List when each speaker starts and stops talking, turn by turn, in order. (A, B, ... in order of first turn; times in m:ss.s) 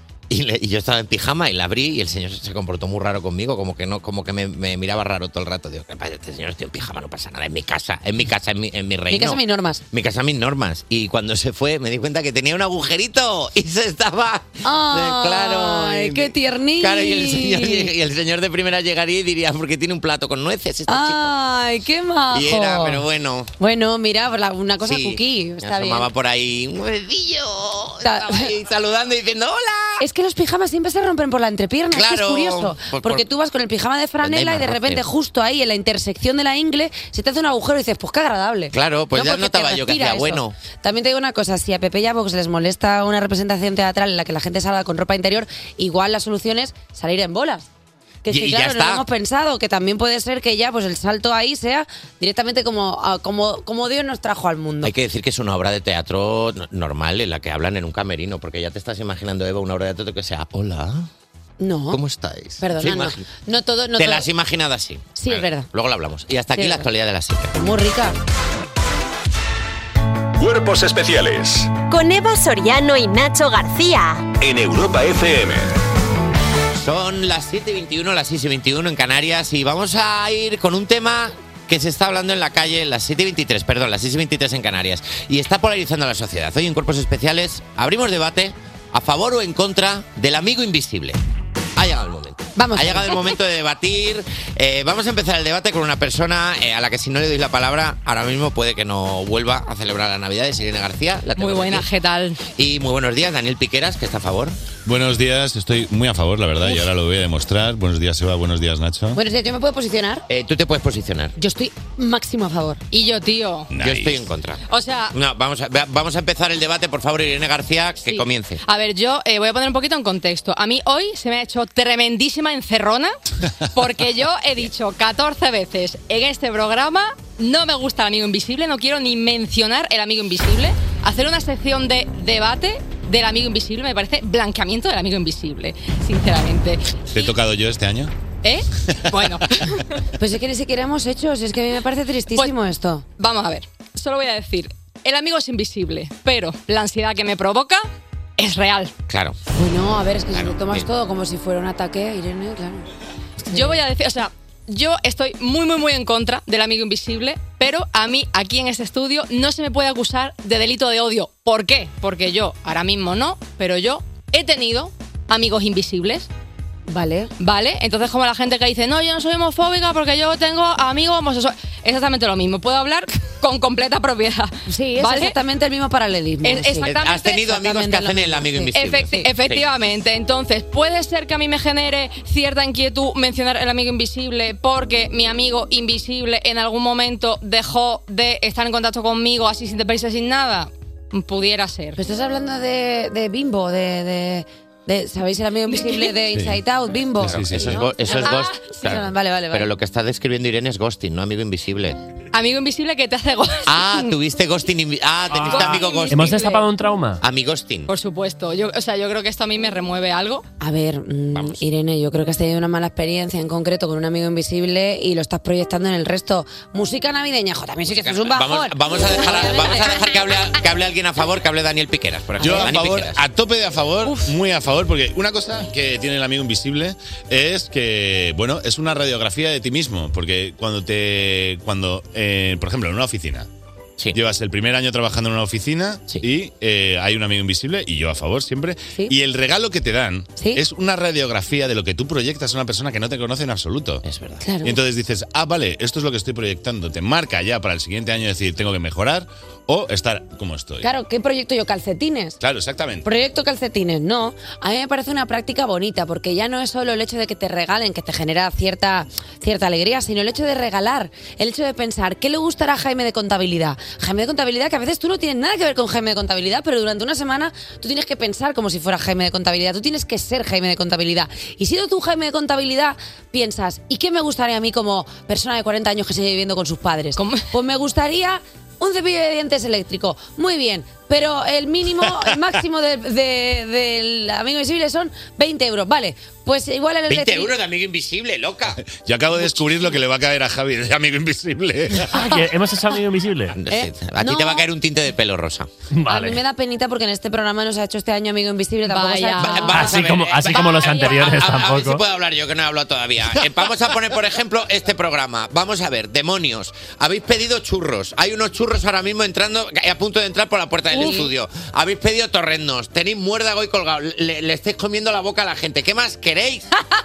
0:00.3-0:09.4 A
0:09.1-0:09.8 B
0:09.9-0:21.3 A
0:14.6-0:17.9 B
0:20.9-0:23.0 B
0:22.3-0:23.5 A
0:23.6-0:26.1 B
0:24.8-0:30.0 A
0:28.0-0:28.5 B
0:30.0-0:47.7 B
0:31.9-0:33.2 A
0:34.2-0:35.0 A
0:38.7-0:40.6 A
0:48.2-0:54.9 B
0:48.3-0:49.0 A
0:54.8-1:01.1 A
1:01.6-1:02.0 B
1:01.9-1:03.2 A
1:02.6-1:04.3 B
1:04.0-1:07.6 A
1:05.2-1:05.7 B
1:06.6-1:06.9 B
1:07.6-1:08.2 B
1:10.4-1:11.8 C
1:11.9-1:14.3 D
1:14.4-1:15.7 C
1:16.8-1:31.2 A
1:31.8-1:41.9 A
1:32.6-1:33.2 B
1:41.4-1:42.4 E
1:42.6-1:44.6 A
1:44.8-1:49.2 F
1:49.1-1:50.3 B
1:50.3-1:51.4 A
1:51.4-1:52.8 B
1:52.9-1:53.7 E
1:53.7-1:54.3 F
1:53.8-1:58.6 A
1:54.7-1:55.1 E
1:58.1-2:03.2 E
2:03.7-2:17.2 E
2:17.1-2:18.1 F
2:18.4-2:19.9 E
2:18.9-2:19.2 F
2:20.2-2:23.0 B
2:23.2-2:28.9 E
2:29.1-2:29.4 A
2:29.5-2:32.9 B
2:30.3-2:30.9 A
2:33.5-2:46.3 E
2:33.5-2:33.8 B
2:46.9-2:47.3 B
2:47.4-2:55.4 E
2:54.7-2:59.3 B
2:56.4-2:57.5 E
2:56.8-2:59.7 A
2:58.7-3:12.0 E
3:12.0-3:19.7 B
3:15.7-3:16.1 E
3:16.3-3:16.6 F
3:17.2-3:17.8 F
3:17.2-3:22.0 A
3:18.0-3:19.0 E
3:22.3-3:24.0 E
3:23.7-3:26.4 A
3:25.4-3:26.6 E
3:26.1-3:27.2 G
3:27.2-3:27.9 A
3:27.9-3:30.4 E
3:30.6-3:40.0 B
3:31.3-3:31.6 A
3:37.9-3:43.2 A
3:42.4-3:42.7 B
3:42.4-3:53.5 F
3:54.1-4:04.0 F
4:04.0-4:04.4 A
4:04.4-4:04.8 B
4:04.6-4:10.9 F
4:10.8-4:12.4 B
4:12.4-4:13.1 F
4:13.0-4:47.5 B
4:37.2-4:37.5 E
4:47.1-4:48.8 A
4:48.8-4:52.3 F
4:52.1-4:53.6 G
4:53.5-4:55.7 A
4:53.7-4:54.7 B
4:55.9-4:56.4 G
4:56.1-5:00.0 B
4:58.9-4:59.9 E
4:59.4-5:16.7 A
4:59.7-5:02.0 G
5:00.7-5:01.5 E
5:10.9-5:11.3 B